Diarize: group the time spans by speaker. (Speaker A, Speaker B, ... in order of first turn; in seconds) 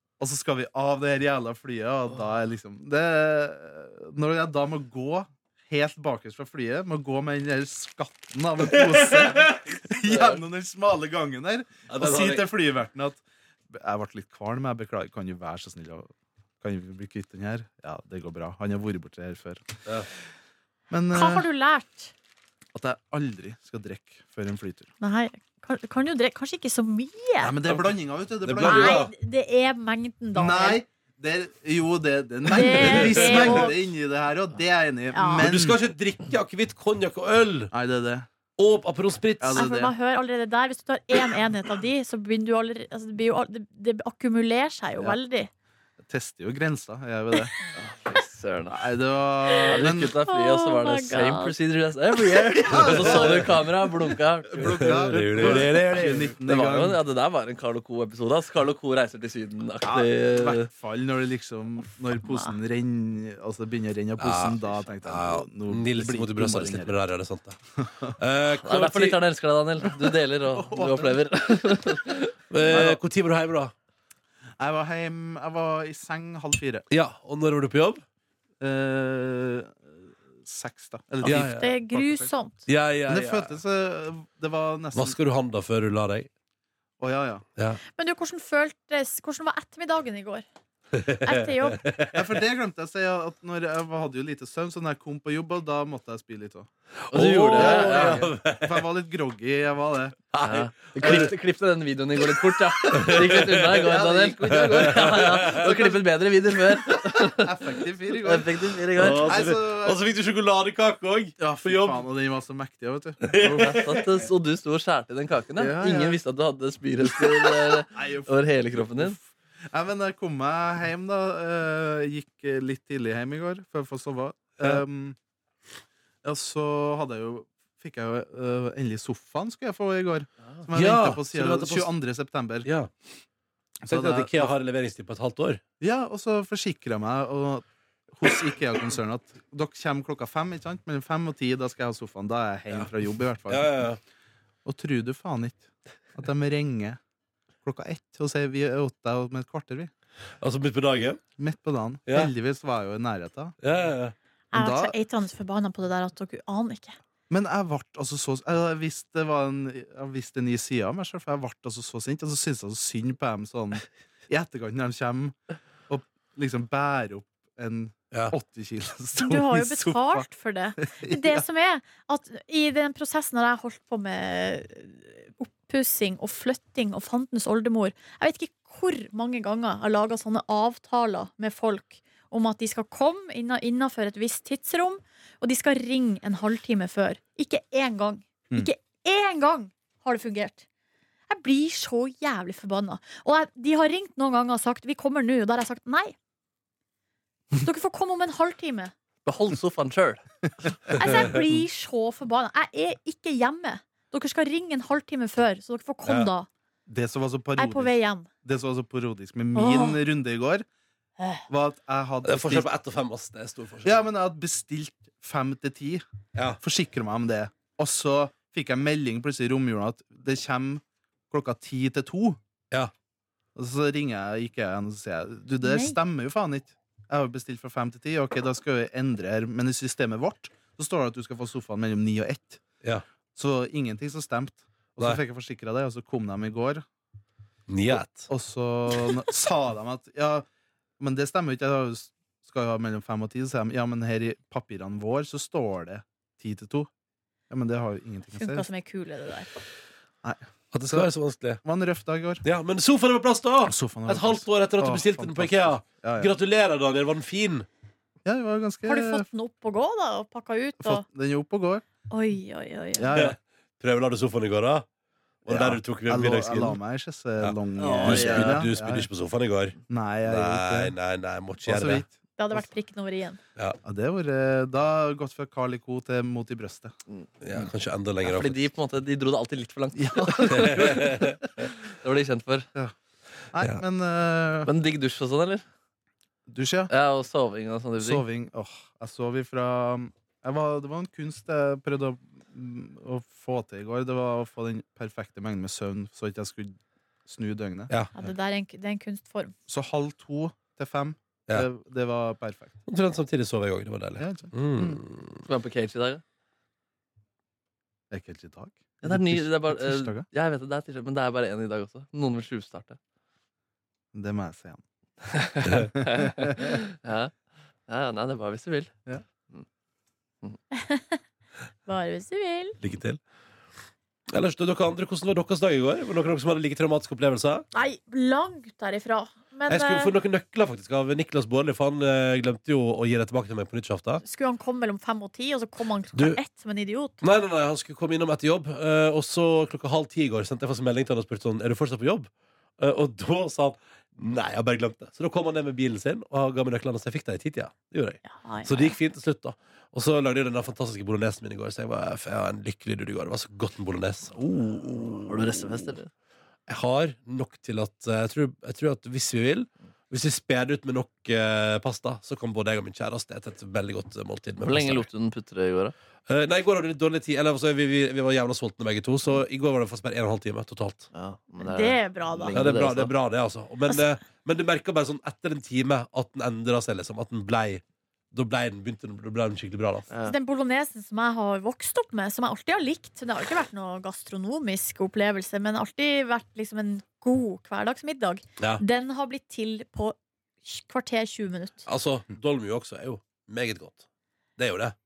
Speaker A: 0.2-19.7, 20.9-21.5, 22.7-24.9, 27.4-29.1, 30.4-35.8, 37.7-38.3, 39.4-39.9, 46.0-47.5, 48.7-50.1, 52.6-53.7, 54.6-57.0, 59.8-67.0, 67.8-68.2, 70.5-71.2, 72.6-73.0, 74.6-76.9, 78.6-82.3, 83.1-85.2, 87.0-87.5, 92.1-96.7, 97.5-100.2, 101.0-101.3, 103.1-106.0, 107.3-110.0, 111.4-113.8, 115.6-116.2, 117.9-125.2, 126.2-132.7, 133.8-134.5, 135.8-143.8, 144.7-147.0, 147.6-149.9, 151.4-153.6, 154.5-154.9, 157.3-165.4, 165.9-170.3, 170.8-171.4, 206.9-210.7, 211.5-212.7, 213.8-216.1, 216.6-222.4, 223.6-232.6, 233.3-236.8, 237.9-240.5, 241.0-246.9, 247.5-248.7, 250.2-251.1, 251.6-252.4, 253.7-256.3, 258.2-259.3, 260.8-261.8, 263.0-263.4, 265.5-269.1, 269.9-271.0, 271.6-272.7, 273.8-276.9, 280.0-281.2, 283.5-284.7, 286.5-286.9, 288.0-298.3, 299.7-302.8, 304.2-305.0, 308.1-310.3, 314.1-314.8, 315.9-316.8
Speaker B: 8.7-9.6, 11.9-12.5, 28.4-29.1, 32.7-33.7, 35.4-37.7, 38.6-39.6, 52.7-53.6, 54.6-56.3, 64.2-67.6, 68.2-69.2, 72.5-73.7, 76.9-78.0, 81.2-81.7, 82.7-83.6, 84.9-86.3, 90.9-92.3, 97.1-98.8, 100.3-101.3, 102.4-103.9, 104.5-106.0, 109.0-112.0, 113.2-114.2, 130.7-131.9, 132.6-132.9, 133.9-135.6, 143.5-144.0, 150.4-151.2, 152.1-152.3, 153.6-154.1, 212.2-214.0, 237.7-238.3, 250.7-251.6, 252.4-257.7, 263.1-264.9, 265.4-266.8, 267.4-272.1, 277.4-278.7, 280.5-281.4, 302.9-305.4, 315.6-315.9, 322.8-323.2, 324.3-327.6, 329.7-334.2, 336.1-336.4, 337.2-355.6, 356.7-365.1, 366.3-371.1, 372.5-380.1, 391.9-394.0, 394.6-394.9
Speaker C: 10.1-10.4, 47.7-48.8, 49.7-60.7, 68.5-72.3, 97.1-98.3, 100.4-107.6, 108.2-109.4, 113.4-119.2, 199.2-200.2, 267.8-268.6, 278.2-282.7, 284.7-285.6, 286.9-288.2, 305.5-306.2, 309.0-313.0, 315.2-317.4, 317.9-318.9, 354.5-356.1, 364.6-365.9, 371.1-373.1, 380.1-380.4
Speaker D: 21.1-22.1, 25.0-27.6, 28.6-30.8, 32.5-33.7, 35.1-35.5, 39.6-45.5, 50.3-51.5, 62.3-62.5, 81.3-82.6, 88.0-90.4, 91.2-91.8, 154.5-157.0, 169.2-190.7, 191.3-196.2, 197.6-198.9, 200.9-206.5, 207.6-208.3, 209.6-210.0, 225.6-226.0, 248.3-249.5, 258.9-261.0, 262.1-263.1, 272.4-273.4, 298.1-299.5, 320.7-321.2, 321.9-322.8, 327.7-330.1, 334.2-337.2, 348.3-349.0, 371.6-372.7, 380.2-391.9